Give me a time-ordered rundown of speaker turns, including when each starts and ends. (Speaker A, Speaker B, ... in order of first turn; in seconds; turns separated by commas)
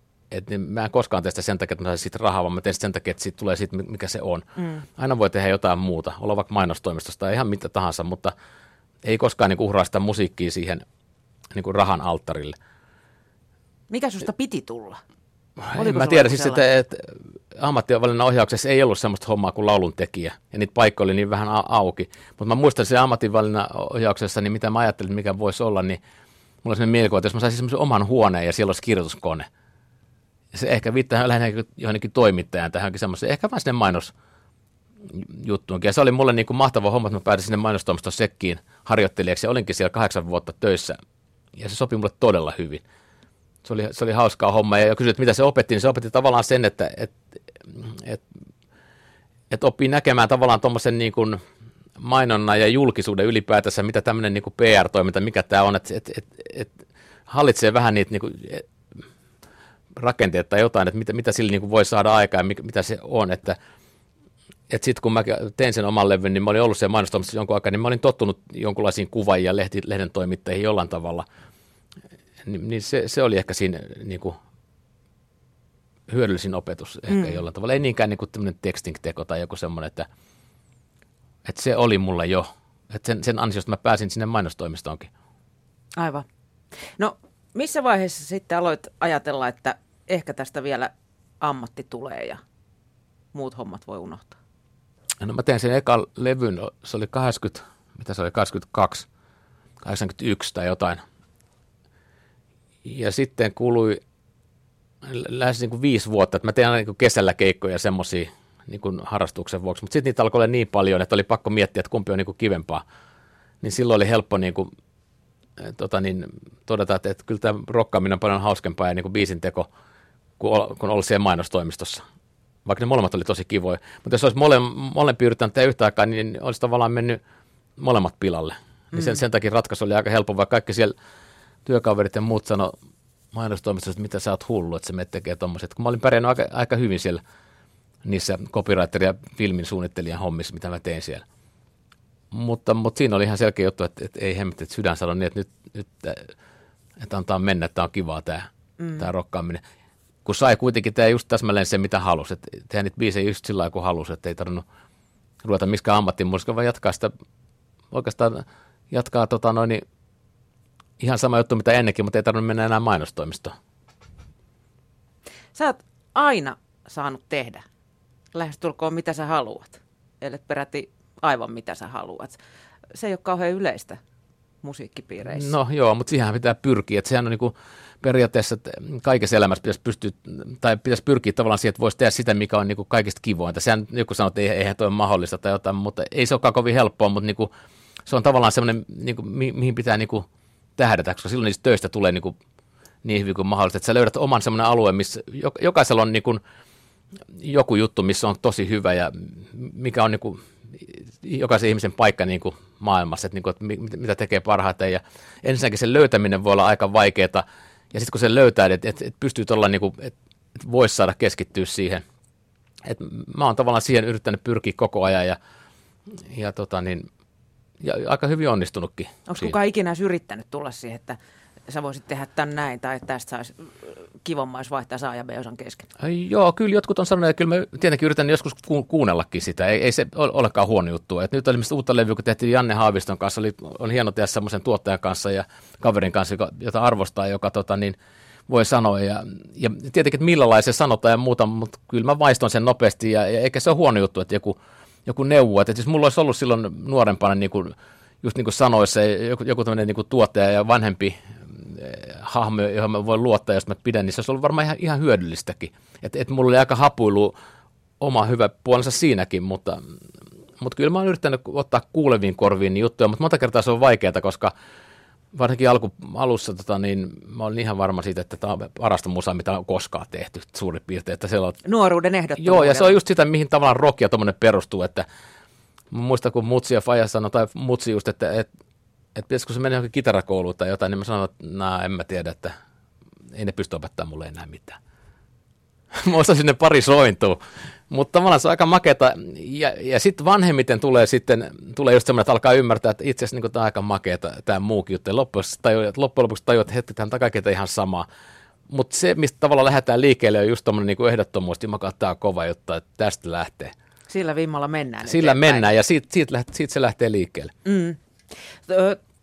Speaker A: 0.3-8.3, Speaker B: 4.6-4.8, Speaker A: 9.0-10.8, Speaker A: 11.5-12.6, Speaker B: 13.9-15.0, Speaker A: 15.6-26.0, Speaker B: 15.7-16.7, Speaker A: 26.6-29.5, Speaker A: 30.5-34.1, Speaker A: 35.1-41.0, Speaker A: 41.5-42.8, Speaker A: 43.6-47.1, Speaker A: 47.7-48.2, Speaker A: 49.5-51.4, Speaker A: 52.0-56.7, Speaker A: 57.3-58.7, Speaker A: 60.0-63.6, Speaker A: 64.7-71.3, Speaker A: 72.4-74.4, Speaker A: 76.1-80.1, Speaker B: 77.1-77.4, Speaker A: 81.5-85.1, Speaker B: 86.0-86.3, Speaker B: 87.0-92.4, Speaker B: 93.3-94.4, Speaker A: 95.2-99.1, Speaker A: 99.8-101.0, Speaker A: 102.8-104.0, Speaker A: 105.0-112.8, Speaker A: 113.6-114.7, Speaker A: 115.6-119.7, Speaker A: 120.4-122.0, Speaker A: 122.7-127.2, Speaker A: 127.8-130.9, Speaker A: 131.7-132.7, Speaker A: 133.3-137.2, Speaker A: 138.0-141.2, Speaker A: 142.3-146.3, Speaker A: 147.0-149.6, Speaker B: 148.8-149.1, Speaker A: 150.2-154.7, Speaker A: 155.4-157.1, Speaker A: 157.9-159.8, Speaker A: 161.0-163.6, Speaker B: 165.6-167.6, Speaker B: 168.3-172.4, Speaker B: 172.9-174.0, Speaker B: 174.6-175.5, Speaker A: 175.3-187.5, Speaker A: 188.1-192.4, Speaker A: 193.0-196.4, Speaker A: 197.3-212.0, Speaker A: 212.8-215.4, Speaker A: 216.2-217.1, Speaker A: 217.8-219.5, Speaker B: 219.3-225.9, Speaker A: 226.0-238.0, Speaker A: 238.5-257.4, Speaker A: 258.0-259.9, Speaker A: 260.6-264.5, Speaker A: 265.3-271.6, Speaker B: 271.6-272.9, Speaker A: 272.4-275.1, Speaker A: 275.9-278.5, Speaker A: 279.1-282.5, Speaker A: 283.3-284.8, Speaker A: 285.9-298.1, Speaker A: 298.7-303.7, Speaker B: 304.1-305.7, Speaker A: 305.1-307.5, Speaker B: 307.6-308.0, Speaker B: 308.7-309.0